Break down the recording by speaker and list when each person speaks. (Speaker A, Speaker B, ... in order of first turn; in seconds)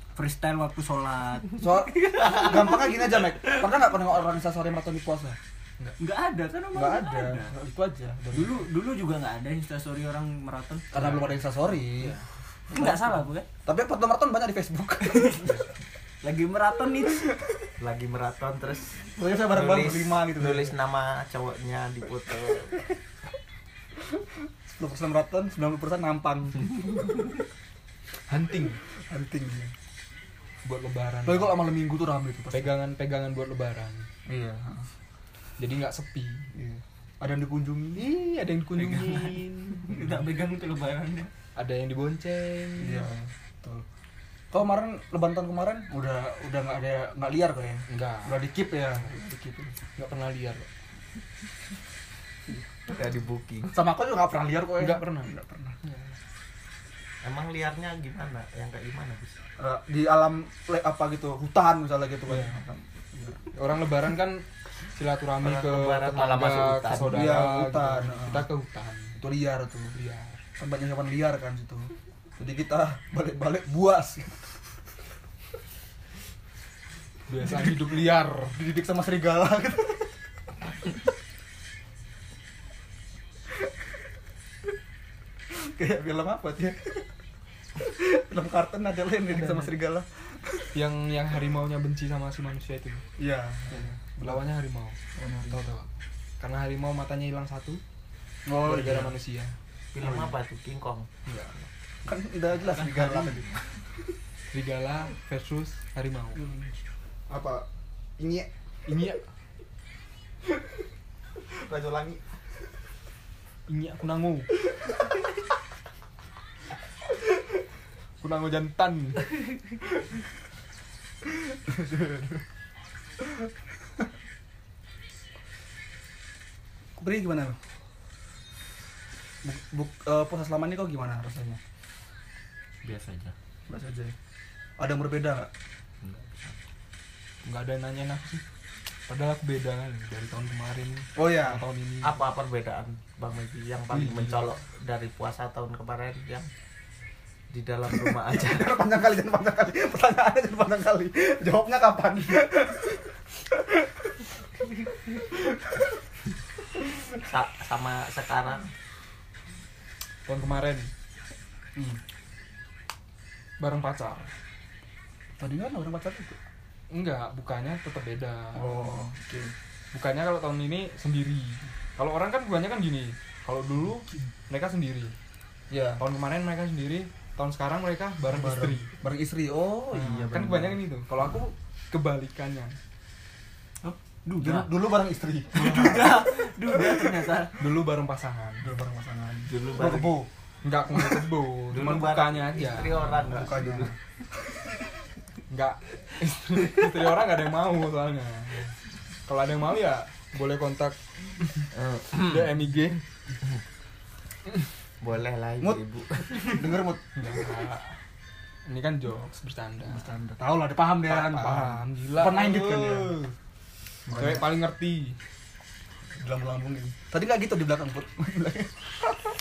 Speaker A: 0.1-2.9, 6.0-7.5, 8.3-11.3, 12.7-13.5, 16.2-17.3, 38.8-41.3, 102.8-103.4, 132.8-133.3, 183.8-184.7, 185.5-187.5
Speaker B: 1.6-5.4, 6.7-8.6, 10.9-12.2, 13.6-15.6, 19.1-20.7, 24.7-26.7, 29.1-29.7, 31.2-32.7, 34.2-34.9, 36.5-38.1, 42.8-43.8, 44.5-49.8, 53.7-55.8, 59.6-63.4, 67.0-68.5, 69.2-70.0, 70.6-74.6, 78.5-80.1, 85.5-87.1, 87.8-90.7, 93.2-94.4, 95.1-95.7, 98.5-99.1, 100.0-100.3, 102.0-103.5, 106.3-106.7, 107.3-107.7, 108.2-108.5, 111.5-112.2, 121.7-122.2, 127.0-127.6, 129.4-131.6, 133.7-134.1, 134.8-135.5, 141.2-141.6, 148.2-153.9, 165.4-166.4, 168.5-169.5, 175.7-176.0, 178.3-180.6, 184.4-186.2, 188.6-190.3, 193.2-193.9, 206.4-207.0, 209.8-213.1, 214.1-214.5, 216.2-219.1
Speaker C: 11.0-11.3, 11.8-12.2, 28.3-28.8, 30.6-31.6, 32.5-34.1, 35.6-36.5, 38.0-40.0, 41.5-43.1, 47.9-48.4, 50.0-50.7, 54.8-55.3, 55.8-56.1, 62.3-62.6, 63.5-69.1, 69.9-70.4, 77.3-78.6, 90.7-93.0, 93.8-95.0, 95.5-95.9, 96.4-97.8, 98.6-99.5, 101.2-101.5, 104.5-106.4, 108.8-109.2, 113.7-114.5, 118.2-119.4, 137.4-138.4, 139.1-142.2, 143.9-144.4, 160.2-160.9, 163.6-164.3, 166.9-168.9, 169.9-175.1, 176.0-178.9, 179.9-182.8, 187.6-188.7, 190.6-193.4, 195.5-198.7, 199.3-203.0, 207.2-207.9, 208.7-210.1, 211.0-213.3, 214.1-215.2
Speaker D: 17.8-22.8, 52.9-53.7, 57.2-59.4, 65.4-67.3, 99.9-101.1, 136.1-136.5, 142.0-146.5, 147.5-148.8, 157.2-158.7, 179.9-180.7, 189.5-190.2, 191.7-193.9, 201.7-202.5, 205.0-206.7